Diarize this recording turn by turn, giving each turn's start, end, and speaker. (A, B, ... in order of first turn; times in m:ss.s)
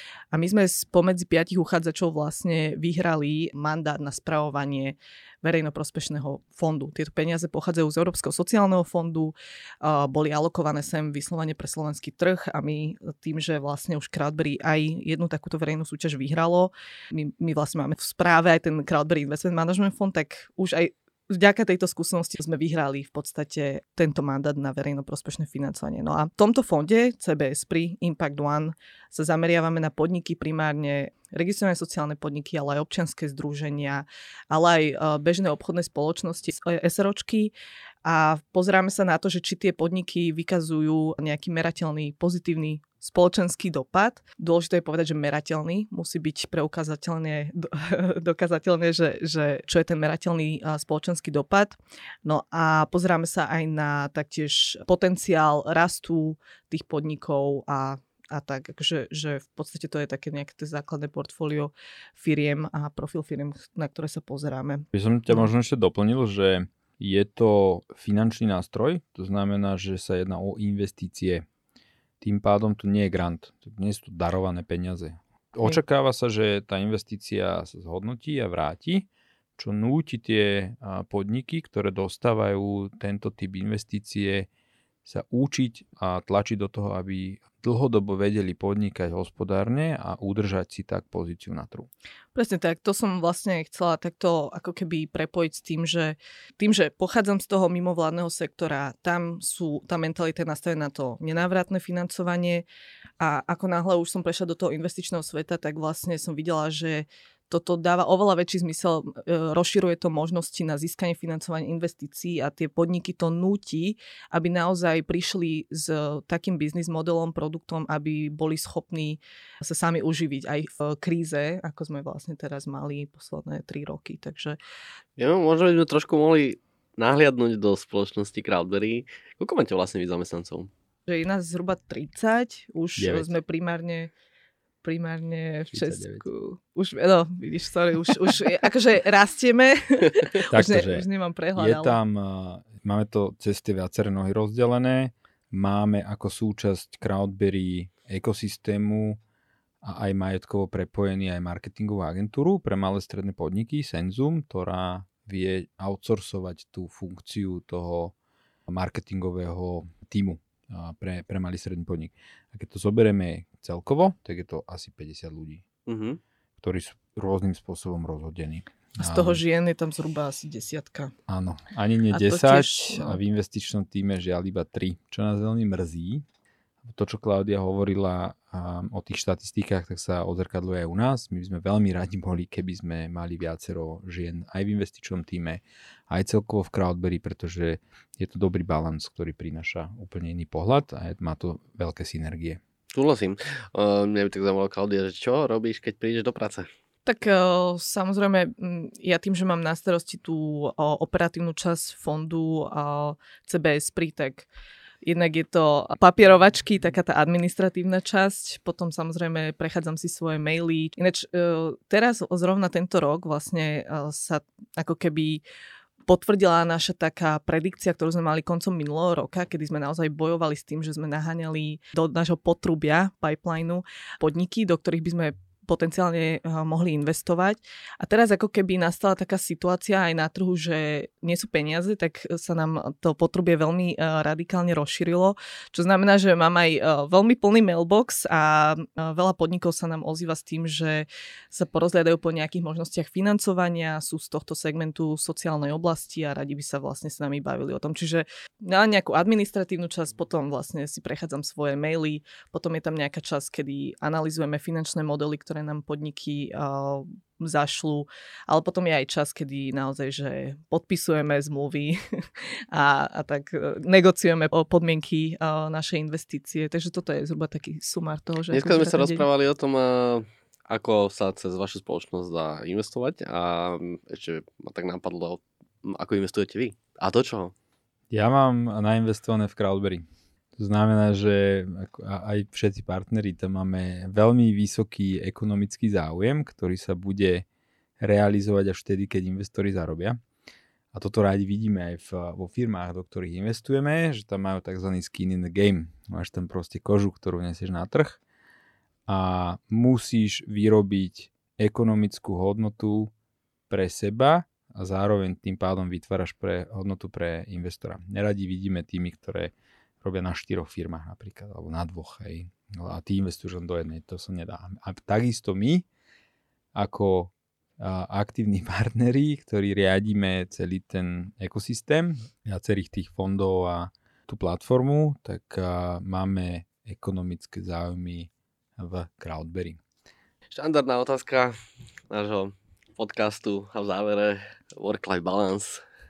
0:00.3-0:37.5 A
0:38.0-1:05.5 A
1:04.9-1:11.4 B
1:12.2-1:24.5 B
1:25.0-1:31.9 B
1:32.4-1:42.6 A
1:43.2-2:04.6 A
2:05.2-2:10.7 C
2:11.1-2:14.1 A
2:13.0-2:13.3 B
2:14.8-2:22.0 A
2:15.7-2:16.2 B
2:20.5-2:29.2 B
2:29.8-2:38.1 B
2:38.7-2:45.6 B
2:45.9-2:46.2 C
2:46.6-2:49.4 B
2:49.0-2:51.1 A
2:51.3-2:56.2 B
2:52.1-2:53.2 A
2:56.8-3:12.6 B
3:12.9-3:16.7 C
3:17.0-3:24.5 A
3:25.0-3:35.4 A
3:36.1-4:29.3 A
4:28.5-4:37.5 C
4:38.1-4:47.4 B
4:48.0-4:50.2 B
4:50.9-4:58.2 B
4:59.1-5:03.1 B
5:03.7-5:15.8 B
5:16.8-5:29.8 B
5:30.5-5:31.6 C
5:32.1-5:35.8 C